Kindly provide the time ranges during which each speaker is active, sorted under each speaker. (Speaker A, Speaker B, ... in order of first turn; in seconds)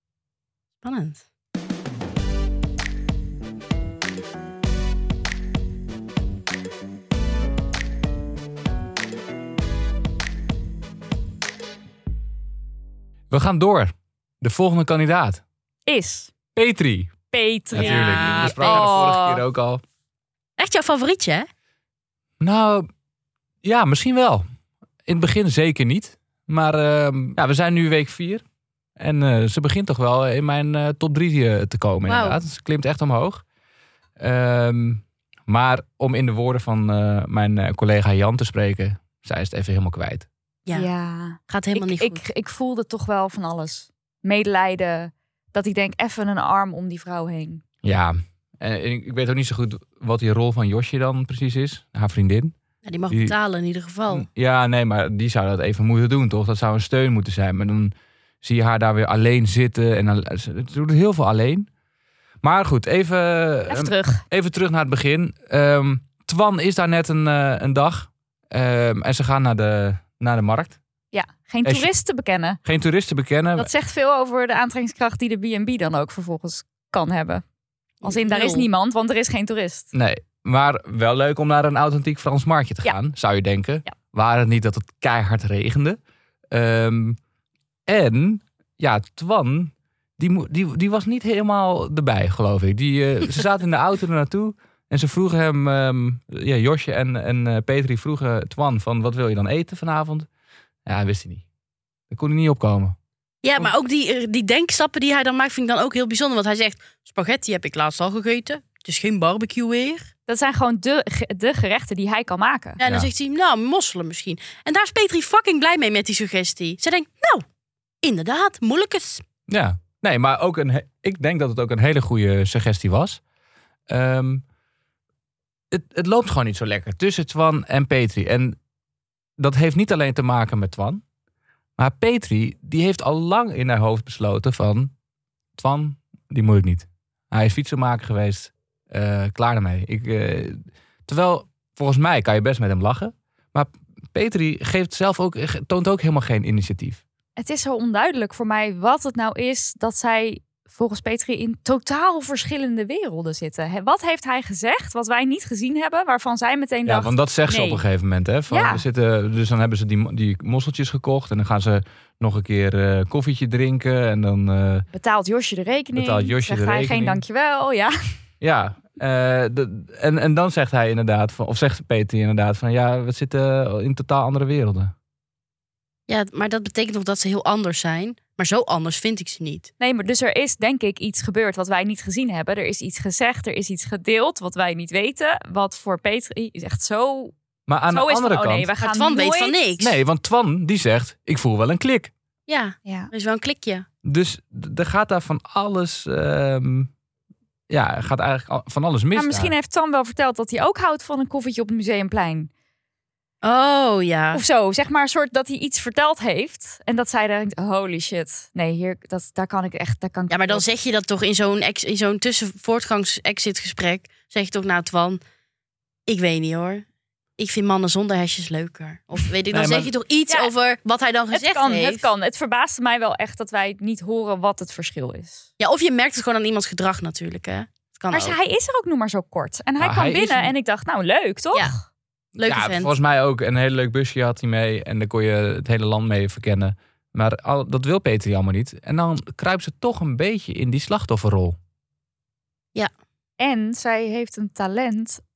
Speaker A: 0.8-1.2, 17.8-19.1, 20.6-21.5, 32.1-32.4, 41.5-42.2, 52.9-54.3, 78.0-78.7, 103.4-110.1, 112.8-117.5, 118.0-119.2, 176.1-179.7, 188.8-190.0, 192.5-193.9, 203.4-204.4, 210.3-215.2, 216.1-216.8, 217.4-222.1, 225.6-228.4, 232.4-232.9
Speaker B: 13.3-15.4, 16.6-17.1, 17.7-19.8, 22.4-22.9, 23.6-24.4, 25.1-28.4, 29.0-33.4, 34.2-40.3, 47.8-52.5, 53.1-53.4, 54.1-61.7, 62.4-70.8, 72.6-73.7, 79.9-86.0, 86.5-87.2, 87.9-100.3, 100.9-101.4, 102.1-103.0, 112.8-113.1, 119.5-123.2, 123.9-124.4, 125.7-128.6, 129.4-131.0, 131.8-134.9, 135.6-147.0, 156.9-164.9, 165.9-167.2, 168.4-174.9, 187.7-188.7, 189.8-192.1, 194.0-196.9, 197.7-199.5, 219.5-219.9, 229.8-230.5, 232.4-241.6
Speaker C: 15.9-16.3, 17.3-19.4, 40.7-47.6, 63.7-64.2, 71.1-72.6, 73.6-77.4, 78.0-79.9, 110.3-112.8, 147.4-157.8, 158.5-158.8, 164.9-167.9, 179.8-187.3, 187.9-189.6, 192.9-193.1, 199.1-202.5, 204.3-210.7, 221.3-225.5, 228.1-231.8, 243.4-245.2